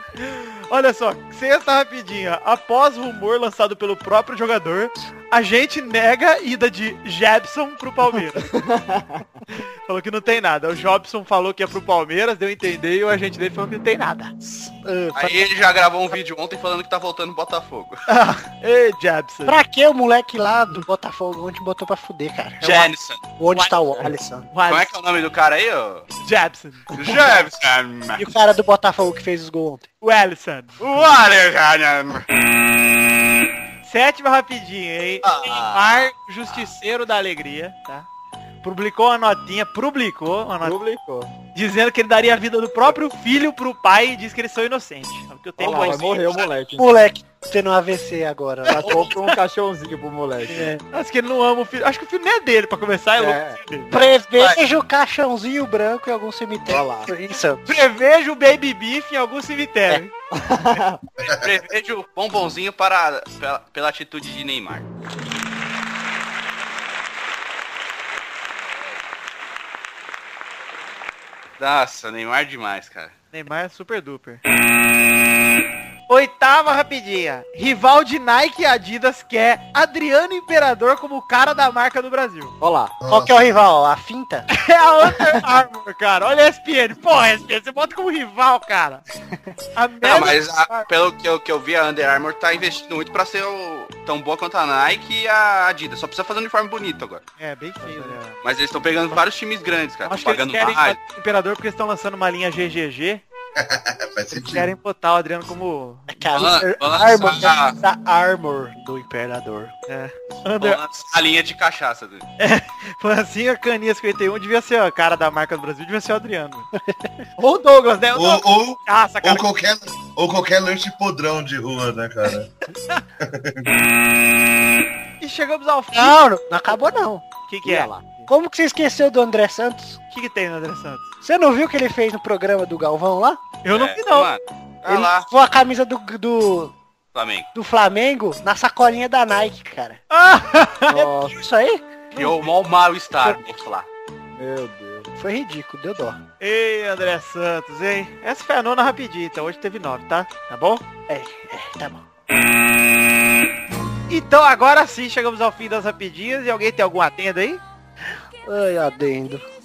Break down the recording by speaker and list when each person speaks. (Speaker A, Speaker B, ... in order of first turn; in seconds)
Speaker A: 0.2-8.5, 9.5-14.3, 18.1-19.6, 24.5-24.9, 26.2-26.9, 30.0-30.8, 33.8-38.1, 38.6-40.8, 41.5-46.5, 48.7-49.4, 50.8-54.0, 57.6-60.1, 73.3-74.4, 76.1-82.5, 84.5-89.0, 89.8-90.9, 97.4-98.4, 100.0-103.2, 104.3-106.4, 109.9-110.8, 112.4-116.7, 117.4-119.4, 125.2-126.2, 127.5-128.3, 130.1-131.1, 133.6-134.3, 140.1-141.0, 146.4-150.8, 154.1-157.6
Speaker B: 8.5-9.2, 40.6-41.3, 45.6-46.9, 48.7-50.7, 53.2-53.6, 56.7-57.1, 60.3-61.0, 82.6-82.9, 127.6-128.1, 140.9-141.3, 144.3-145.1
Speaker C: 14.4-15.4, 19.4-24.5, 28.1-29.9, 46.7-49.1, 50.5-50.8, 53.9-57.7, 83.1-84.5, 106.1-109.7, 116.8-117.2, 125.9-127.2, 128.3-130.0, 131.2-133.4, 134.8-136.7, 137.5-140.0, 140.9-141.8, 145.2-146.2, 151.1-152.0, 158.4-159.4
Speaker D: 15.1-18.0, 22.6-23.2, 24.7-26.1, 26.9-28.3, 30.8-32.2, 35.2-36.6, 61.2-64.9, 71.6-73.1, 90.0-97.2, 98.4-101.0, 106.3-107.8, 110.6-112.2, 133.7-135.3, 137.1-137.5, 142.1-143.9
Speaker E: 83.0-83.5, 103.5-104.7, 118.1-122.5, 123.2-123.7